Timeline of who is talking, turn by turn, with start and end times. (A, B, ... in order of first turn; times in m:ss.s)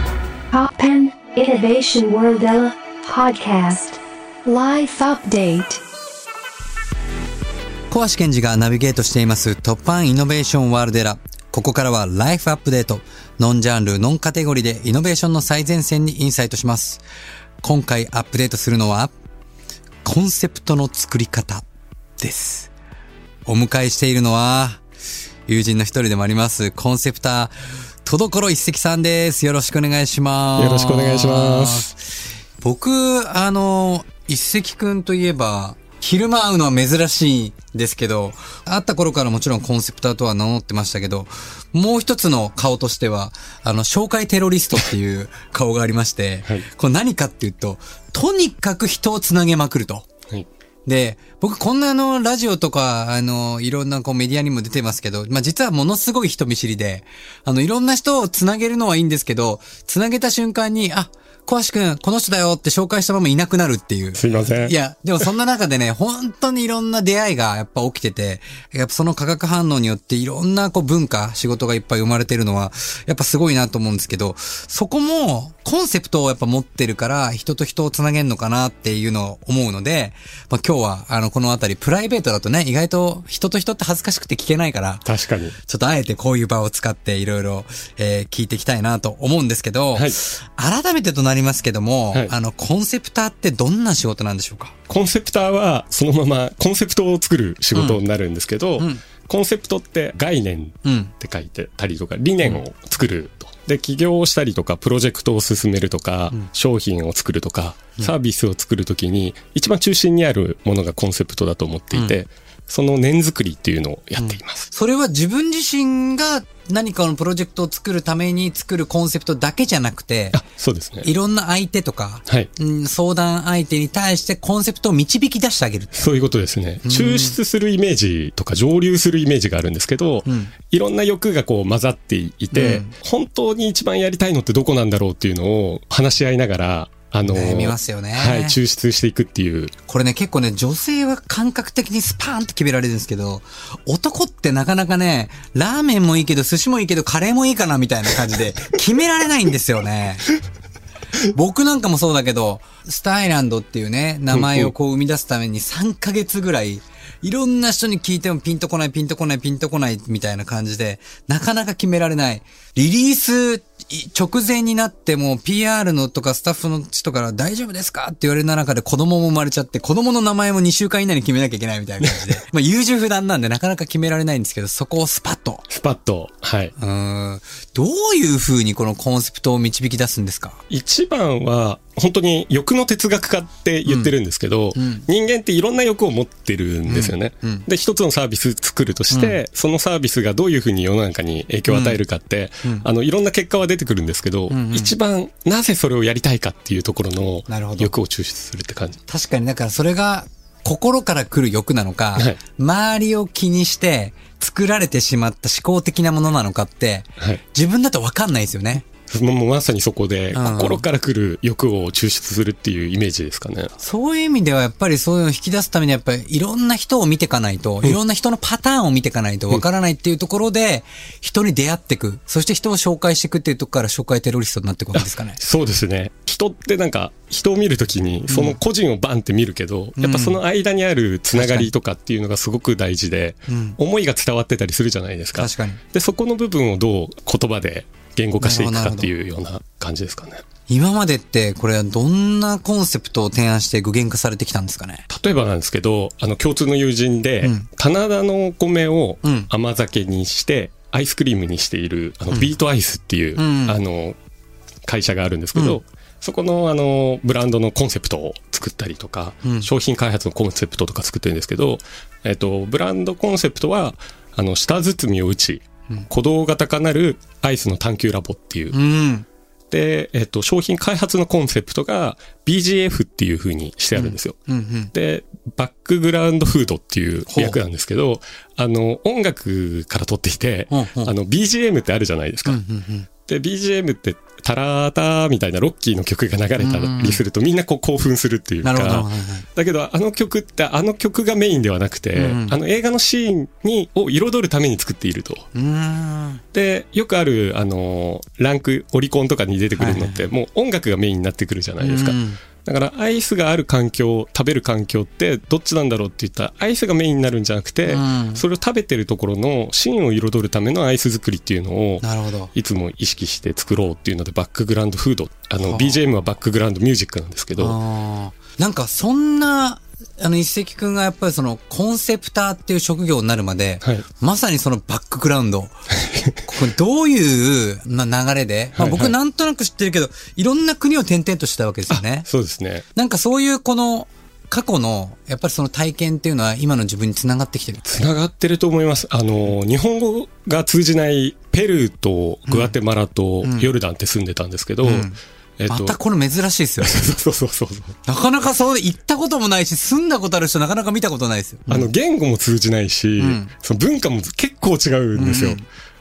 0:00.5-0:05.8 A
0:07.9-0:17.0 B
0:17.6-0:19.1 B
0:20.0-0:21.6 B
0:22.2-0:22.7 B
0:23.5-0:24.8 B
0:25.5-0:32.0 B
0:30.6-0:31.9 C
0:32.6-0:50.1 B
0:50.9-1:25.1 B
1:04.2-1:04.7 C
1:25.0-1:25.6 C
1:25.6-1:34.8 B
1:34.9-1:54.7 C
1:37.7-1:38.0 B
1:38.8-1:39.0 B
1:40.8-1:41.1 B
1:54.2-2:00.4 B
2:00.3-2:01.1 C
2:01.0-2:06.0 B
2:05.9-2:19.7 C
2:06.8-2:07.4 B
2:10.2-2:10.5 B
2:12.5-2:12.9 B
2:17.3-2:18.6 B
2:19.9-2:30.3 B
2:31.3-2:55.7 B
2:34.3-2:34.7 C
2:52.0-2:52.3 C
2:55.7-2:56.7 C
2:56.8-3:00.6 B
3:00.7-3:19.0 C
3:03.9-3:04.1 B
3:04.8-3:05.1 B
3:06.9-3:07.7 B
3:09.1-3:09.4 B
3:11.7-3:12.0 B
3:14.5-3:14.9 B
3:17.5-3:17.9 B
3:19.1-3:28.8 B
3:29.1-3:33.7 C
3:30.3-3:30.8 B
3:33.8-3:45.4 B
3:44.9-4:00.4 C
3:48.3-3:48.6 B
3:50.0-3:50.4 B
3:51.3-3:51.7 B
3:53.5-3:53.8 B
3:55.3-3:55.8 B
3:58.4-3:59.1 B
4:00.7-4:05.0 B
4:05.1-4:14.2 C
4:07.4-4:07.7 B
4:09.2-4:09.5 B
4:13.4-4:13.8 B
4:14.9-4:28.8 C
4:15.5-4:15.8 B
4:19.4-4:19.7 B
4:28.7-4:29.3 B
4:29.7-4:34.4 C
4:34.0-4:34.9 B
4:34.9-4:42.6 C
4:37.3-4:37.6 B
4:40.7-4:41.2 B
4:42.4-4:43.1 B
4:43.2-4:55.5 C
4:46.6-4:47.2 B
4:48.6-4:49.5 B
4:52.2-4:52.6 B
4:55.5-4:56.4 B
4:56.5-5:17.8 C
4:59.8-5:00.3 B
5:01.8-5:02.4 B
5:07.9-5:08.4 B
5:12.0-5:12.5 B
5:15.6-5:16.0 B
5:17.6-5:25.8 B
5:26.0-5:26.4 C
5:26.4-5:32.3 B
5:28.8-5:29.1 C
5:31.9-5:32.8 C
5:32.9-5:37.8 B
5:37.8-5:46.0 C
5:42.5-5:42.8 B
5:43.4-5:43.7 B
5:44.8-5:47.2 B
5:46.8-5:48.0 C
5:48.0-5:51.9 B
5:51.7-5:55.6 C
5:53.2-5:53.5 B
5:55.1-5:55.6 B